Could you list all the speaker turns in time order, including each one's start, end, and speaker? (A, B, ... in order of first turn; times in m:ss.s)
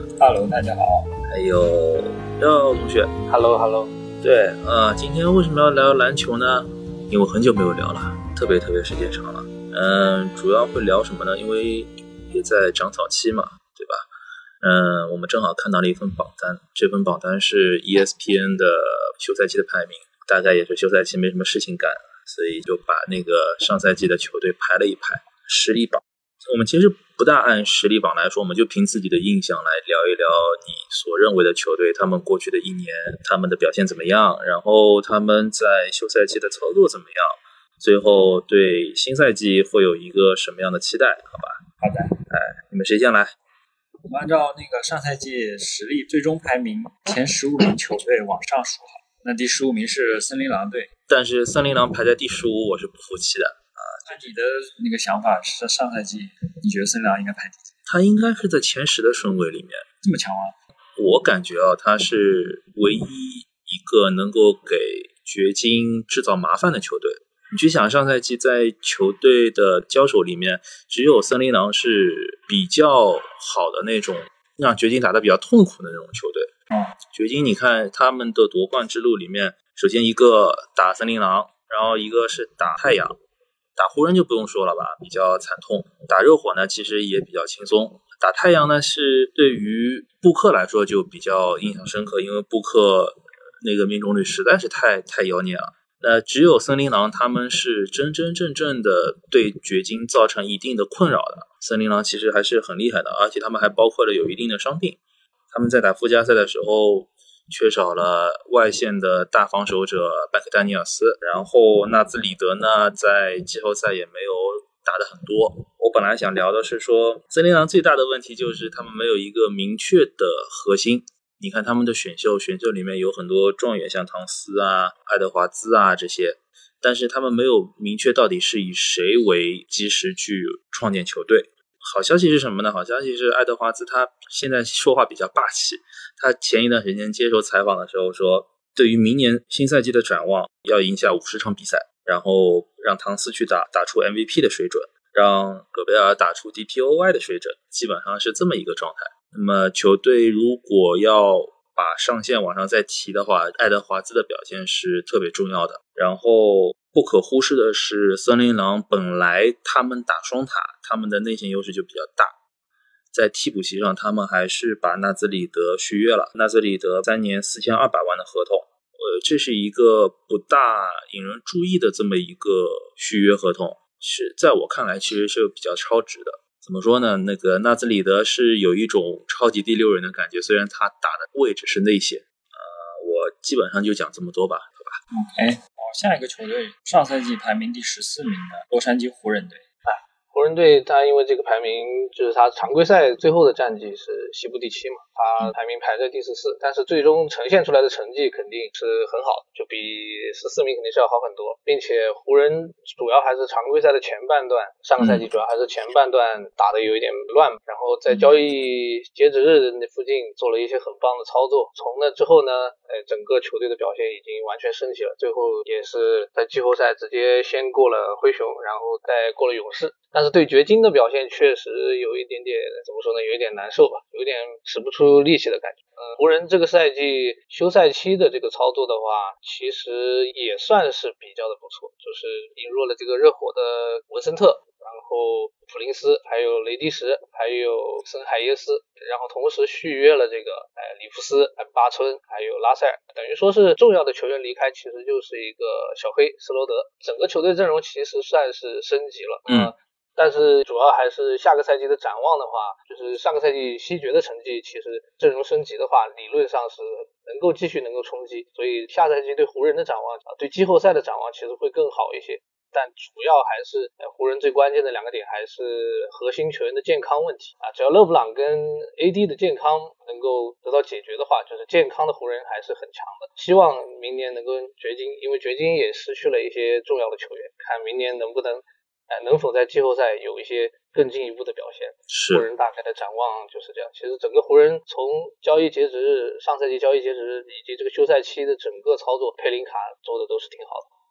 0:00.2-0:01.1 A
0:01.3-0:03.1 B
0:03.3-0:03.9 C
0:04.2-0:14.0 B
0:14.6-0:41.6 B
0:41.8-0:42.1 A
0:42.3-0:43.3 B
0:44.1-0:50.9 A
0:51.1-0:54.1 B
0:54.0-0:57.7 A
0:57.9-0:59.8 B
1:00.0-1:00.6 A
1:01.0-1:16.5 B
1:17.1-1:23.2 B
1:23.8-1:45.0 B
1:45.5-2:42.3 B
2:43.1-3:05.0 B
3:05.1-3:09.6 A
3:09.8-4:50.8 C
3:25.0-3:25.2 B
4:09.5-4:09.7 B
4:42.1-4:42.5 B